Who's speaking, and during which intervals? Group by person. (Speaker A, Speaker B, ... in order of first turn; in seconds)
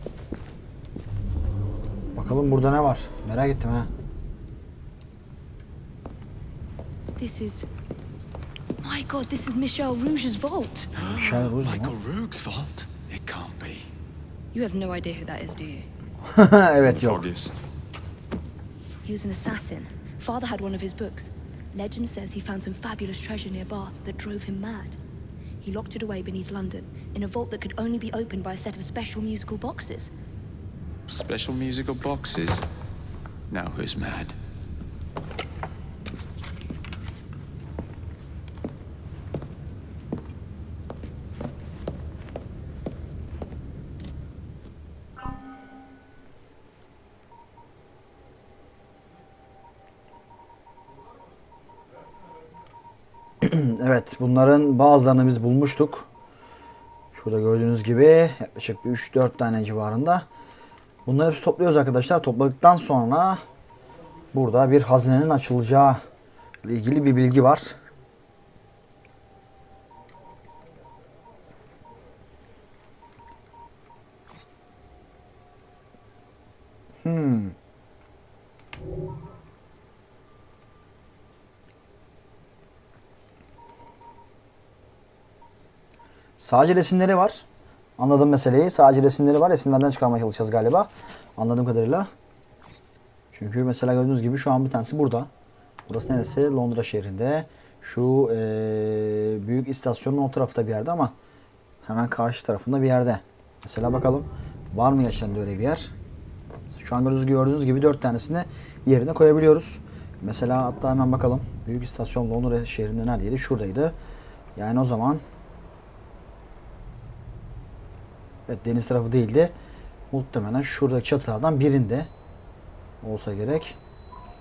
Speaker A: 2.1-3.9, 11.0-11.9, 16.2-17.2, 53.4-56.1, 57.1-60.3, 61.0-63.4, 64.3-66.0, 66.6-67.8, 77.0-77.5, 86.4-87.4, 88.0-92.1, 93.3-95.3, 95.9-101.1, 101.8-105.9, 106.7-113.9, 114.5-115.2, 118.5-119.5, 120.1-122.1, 123.0-123.8
Speaker B: 7.2-7.7, 8.8-10.9, 14.5-15.9, 19.0-25.0, 25.6-30.1
Speaker C: 10.9-13.9, 16.9-17.6, 31.1-32.6, 33.5-34.4